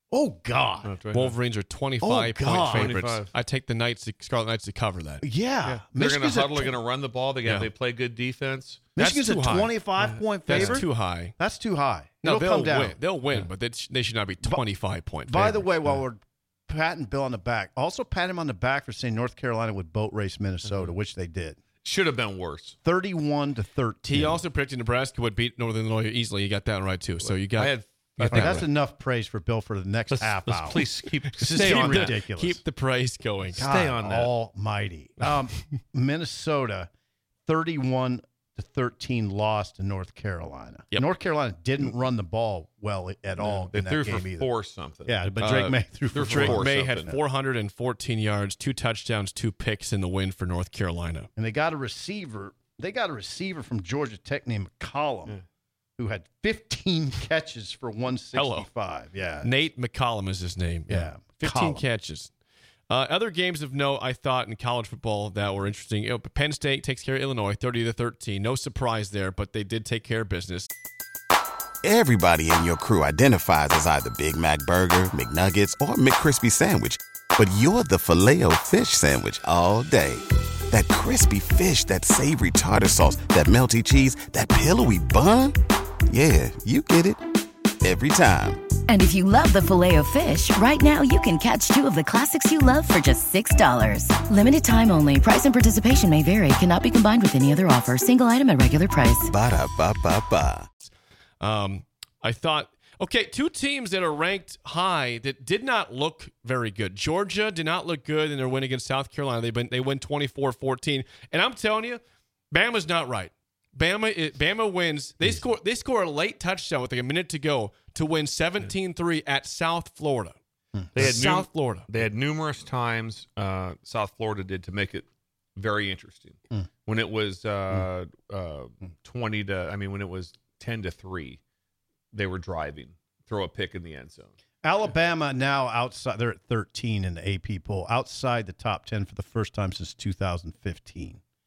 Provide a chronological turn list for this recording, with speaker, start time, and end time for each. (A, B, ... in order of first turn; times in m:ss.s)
0:00.1-0:01.0 A
0:00.8-0:01.4 B
0:01.1-0:05.2 C
0:02.0-0:02.9 A
0:02.5-0:03.3 B
0:05.2-0:06.8 A
0:05.6-0:08.9 B
0:09.0-0:13.0 A
0:09.0-0:09.7 C
0:10.0-0:10.8 B
0:10.4-0:11.3 C
0:12.2-0:15.7 C
0:15.3-0:21.6 A
0:20.6-0:20.9 B
0:21.8-0:22.7 B
0:22.8-0:24.4 A
0:24.1-0:28.7 C
0:27.2-0:28.7 B
0:28.3-0:30.8 A
0:30.1-0:32.2 B
0:31.4-0:32.6 A
0:31.4-0:33.6 C
0:33.5-0:36.9 A
0:33.5-0:34.3 B
0:37.5-0:44.5 A
0:43.4-0:45.2 B
0:45.0-0:47.2 A
0:45.4-0:51.3 C
0:46.1-0:47.1 B
0:51.4-0:55.4 A
0:56.0-0:59.5 A
0:58.3-0:58.7 C
0:59.4-1:02.3 C
1:00.9-1:01.8 A
1:02.9-1:10.7 C
1:11.8-1:25.6 D
1:26.1-1:27.2 D
1:27.8-1:28.6 D
1:28.9-1:39.3 E
1:39.3-1:40.6 D
1:41.4-2:00.3 C
2:00.8-2:01.1 A
2:00.9-2:11.4 B
2:01.0-2:01.9 C
2:12.1-2:14.3 B
2:14.6-2:21.2 A